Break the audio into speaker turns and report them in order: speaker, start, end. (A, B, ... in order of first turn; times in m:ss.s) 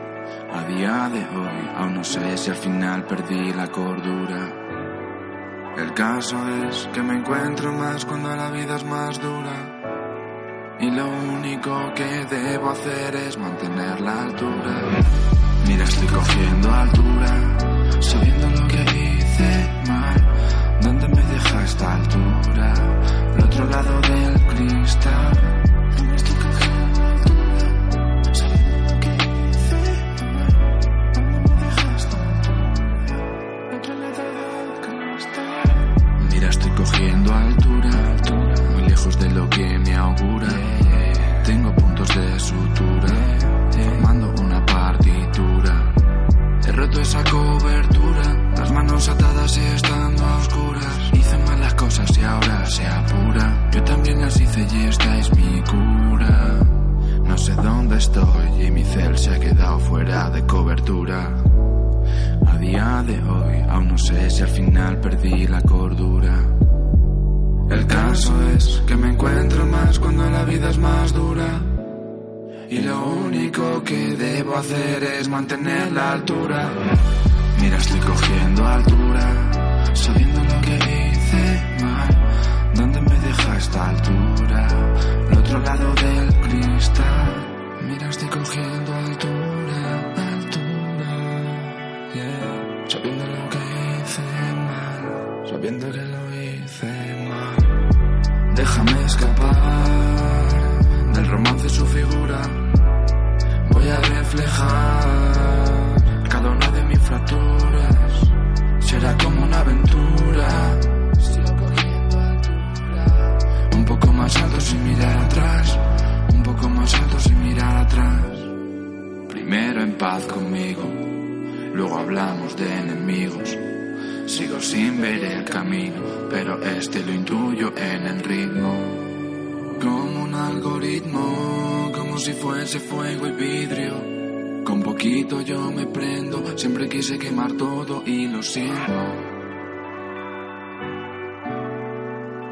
0:00.5-0:04.6 A
0:05.8-0:09.8 A
0:10.8-0:15.1 A
0:15.6-0:27.8 A
0:28.3-0:33.0 A
0:33.7-0:46.0 A
0:46.6-1:01.5 A
1:02.4-1:06.6 A
1:07.7-1:11.8 A
1:12.7-1:17.0 A
1:17.5-1:37.9 A
1:38.5-1:42.8 A
1:43.6-1:58.6 A
1:59.3-2:03.6 A
2:04.3-2:09.2 A
2:09.8-2:19.3 A